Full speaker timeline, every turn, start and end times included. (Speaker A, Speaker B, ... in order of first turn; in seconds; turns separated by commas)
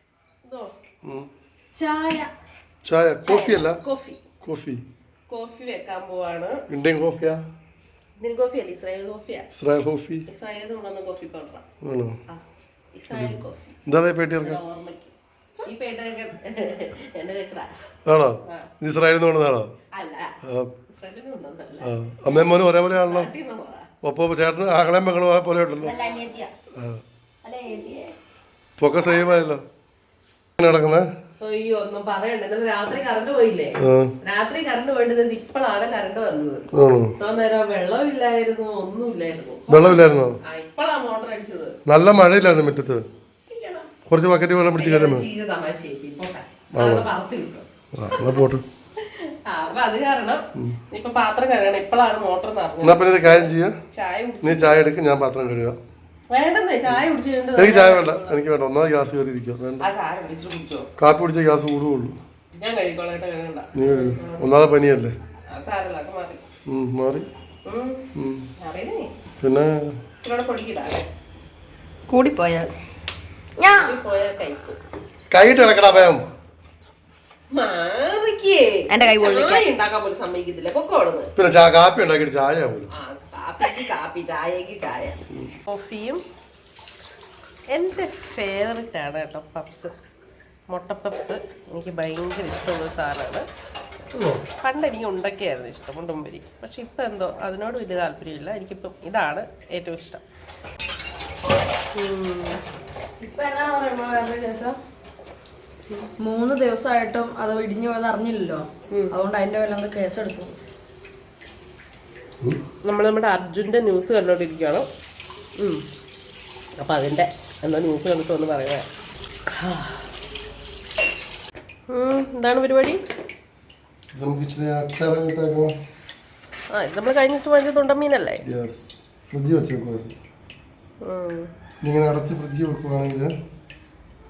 Speaker A: 0.5-0.7, Speaker A: 1.8-2.3, Speaker B: 2.9-3.8, Speaker A: 3.2-4.2, Speaker B: 4.4-4.8, Speaker A: 5.3-6.6, Speaker B: 6.7-7.4, Speaker A: 8.2-9.5, Speaker B: 9.5-10.2, Speaker A: 10.3-11.6, Speaker B: 11.8-12.2, Speaker A: 12.9-13.8, Speaker B: 13.1-14.7, Speaker A: 14.4-17.7, Speaker B: 18.1-19.7, Speaker A: 19.9-20.3, Speaker B: 20.4-20.7, Speaker A: 20.9-23.9, Speaker B: 21.8-23.3, Speaker B: 24.0-25.9, Speaker A: 25.8-26.4, Speaker C: 25.8-26.5, Speaker B: 26.8-27.0, Speaker C: 27.4-28.0, Speaker A: 27.6-28.1, Speaker B: 28.8-29.6, Speaker B: 30.6-31.1, Speaker A: 31.4-36.6, Speaker B: 33.8-34.1, Speaker B: 36.7-37.1, Speaker A: 37.2-41.8, Speaker B: 39.7-40.4, Speaker B: 41.9-43.0, Speaker A: 43.5-43.9, Speaker B: 44.1-45.3, Speaker A: 44.8-48.4, Speaker B: 46.8-47.1, Speaker B: 47.9-48.6, Speaker A: 49.0-54.8, Speaker B: 52.8-53.7, Speaker B: 54.4-55.8, Speaker A: 56.3-58.4, Speaker B: 57.6-59.9, Speaker A: 59.8-60.9, Speaker B: 61.0-62.2, Speaker A: 62.6-64.5, Speaker B: 63.8-65.1, Speaker A: 65.5-66.4, Speaker B: 66.7-67.3, Speaker A: 67.7-68.1, Speaker B: 68.2-68.5, Speaker A: 68.6-69.1, Speaker B: 69.4-69.9, Speaker A: 70.2-71.1, Speaker C: 72.1-72.7, Speaker C: 73.6-74.0, Speaker A: 73.6-74.8, Speaker B: 75.3-76.3, Speaker A: 77.5-81.3, Speaker C: 78.9-79.6, Speaker B: 81.4-82.9, Speaker A: 82.9-86.2, Speaker A: 87.7-89.9, Speaker A: 90.7-93.4, Speaker B: 94.2-94.4, Speaker A: 94.6-100.2, Speaker A: 102.0-102.6, Speaker C: 103.2-104.8, Speaker C: 106.2-110.6, Speaker A: 112.8-114.8, Speaker A: 116.8-118.9, Speaker A: 119.6-120.1, Speaker A: 121.9-123.0, Speaker B: 124.2-125.7, Speaker A: 126.7-128.4, Speaker B: 128.5-130.2, Speaker A: 131.0-131.5, Speaker B: 131.8-133.3